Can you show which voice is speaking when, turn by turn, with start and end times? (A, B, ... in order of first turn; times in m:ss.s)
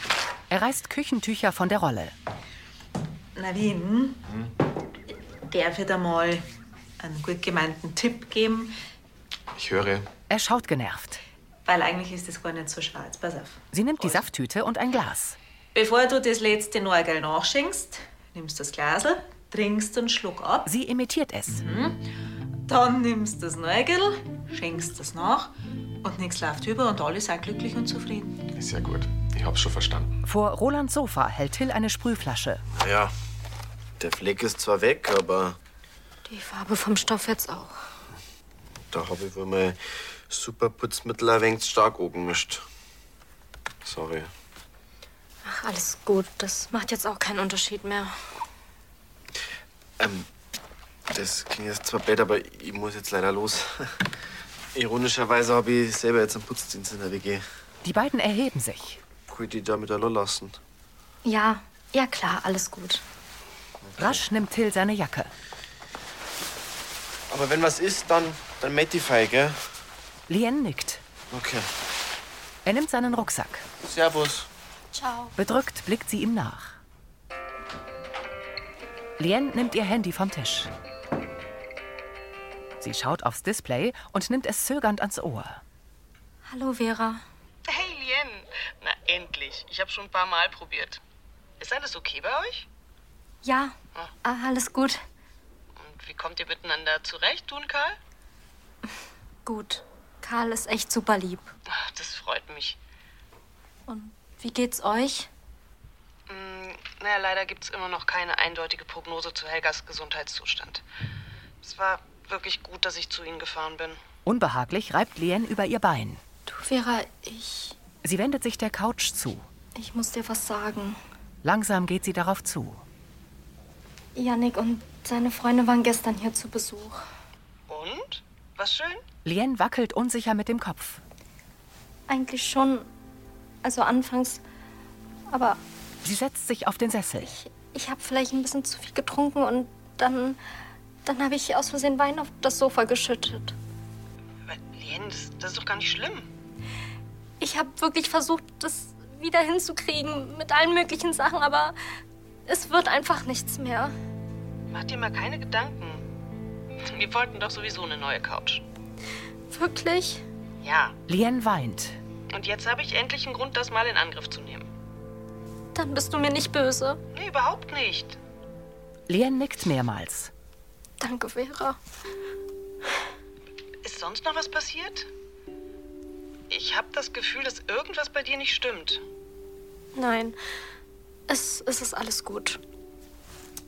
0:00.5-0:02.1 A
0:03.4-0:04.2 B
0:05.5-0:06.5 B
0:07.0-0:08.7 B
0:09.6-0:10.1 C
0:10.3-0:11.2 A
0:11.7-0:13.6 B
0:13.7-0:15.4 A
0:15.7-0:20.7 B
0:20.6-0:21.6 A
0:21.6-0:22.1 B
0:22.7-0:28.4 B
0:28.5-0:30.2 C
0:30.2-0:32.6 A
0:32.8-0:33.1 D
0:34.0-0:35.6 D
0:36.3-0:37.8 E
0:38.9-0:42.6 D
0:43.8-0:44.3 D
0:45.4-0:48.2 E
0:50.0-0:50.3 D
0:51.1-0:54.0 D
0:54.7-0:57.4 D
0:57.8-0:59.0 A
0:59.3-1:00.6 D
1:01.2-1:03.0 E
1:04.0-1:05.3 A
1:07.3-1:09.6 D
1:10.3-1:11.0 A
1:11.3-1:11.7 D
1:12.6-1:13.6 A
1:13.8-1:14.5 D
1:14.9-1:15.4 E
1:15.4-1:16.8 A
1:19.2-1:20.7 A
1:22.8-1:25.6 A
1:26.5-1:27.2 E
1:27.7-1:31.0 F
1:31.6-1:32.7 F
1:33.4-1:35.0 E
1:35.8-1:38.0 F
1:39.4-1:41.5 E
1:41.7-1:42.8 F
1:43.9-1:45.3 E
1:46.3-1:50.8 F
1:51.6-1:54.0 F
1:54.3-1:56.2 A
1:56.5-1:57.8 E
1:58.0-1:59.5 A
1:59.8-2:01.0 E
2:01.4-2:02.8 A
2:04.2-2:07.0 E
2:07.7-2:09.0 F
2:09.2-2:11.0 A
2:12.1-2:12.9 E
2:13.6-2:14.4 E
2:15.3-2:15.6 E
2:16.0-2:17.3 A
2:17.3-2:20.4 E
2:21.0-2:23.6 E
2:24.5-2:26.3 F
2:27.4-2:31.8 E
2:32.5-2:33.9 E
2:34.7-2:36.0 F
2:36.8-2:38.6 F
2:39.5-2:40.2 E
2:40.6-2:41.0 F
2:41.1-2:42.0 A
2:42.3-2:44.7 F
2:45.8-2:47.0 E
2:47.1-2:48.2 F
2:49.1-2:50.3 A
2:51.0-2:51.8 E
2:53.8-2:55.1 F
2:56.5-2:59.0 F
3:00.0-3:00.4 E
3:01.3-3:02.6 E